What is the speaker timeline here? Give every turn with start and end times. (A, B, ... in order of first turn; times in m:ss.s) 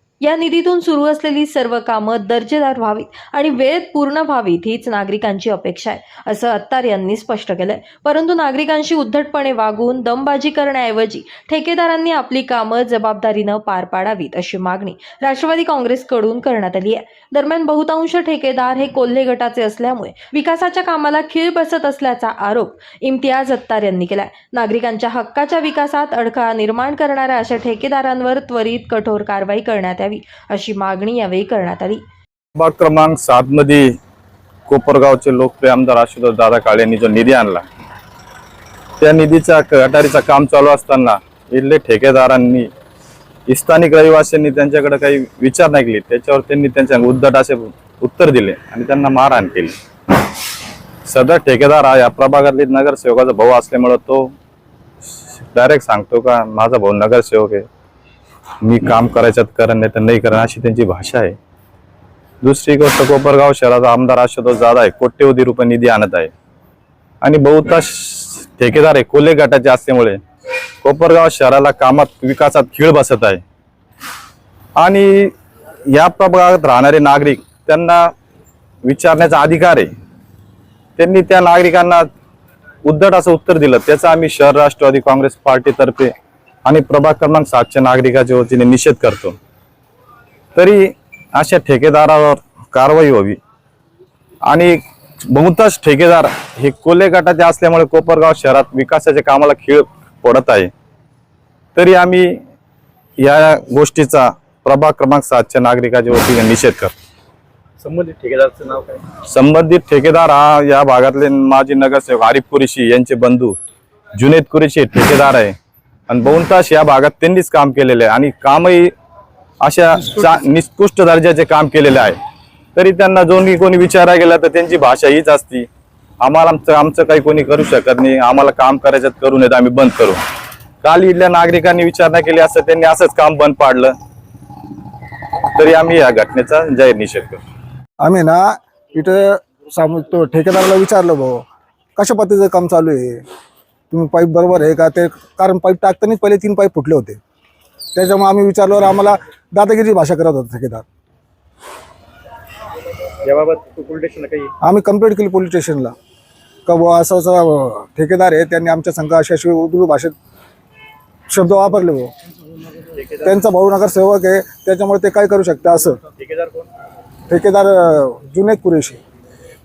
0:00.2-0:32.0 A
0:32.6-0:33.9 B
0:34.7-0:37.6 B
0:39.0-0:42.7 B
0:43.5-0:49.7 B
0:51.0-0:54.3 B
0:55.1-0:57.6 B
0:58.6-1:01.4 B
1:02.4-1:06.3 B
1:07.2-1:10.2 B
1:10.8-1:13.4 B
1:14.8-1:15.3 B
1:15.9-1:18.1 B
1:18.8-1:19.9 B
1:21.0-1:22.0 B
1:22.8-1:26.1 B
1:26.6-1:29.4 B
1:30.5-1:33.4 B
1:34.5-1:40.7 B
1:41.7-1:42.4 B
1:43.2-1:46.9 B
1:47.8-1:49.0 C
1:49.3-1:53.6 B
1:54.2-1:55.5 B
1:56.1-1:58.9 B
1:59.6-2:02.2 B
2:02.7-2:05.7 B
2:06.2-2:10.2 B
2:10.8-2:13.9 B
2:15.5-2:17.4 B
2:18.0-2:21.4 D
2:22.0-2:23.2 D
2:23.9-2:27.2 D
2:27.9-2:30.8 D
2:33.2-2:34.5 C
2:34.6-2:35.9 D
2:36.6-2:40.1 D
2:41.3-2:42.1 D
2:42.9-2:43.3 C
2:43.2-2:46.0 D
2:46.2-2:46.7 C
2:47.3-2:49.0 D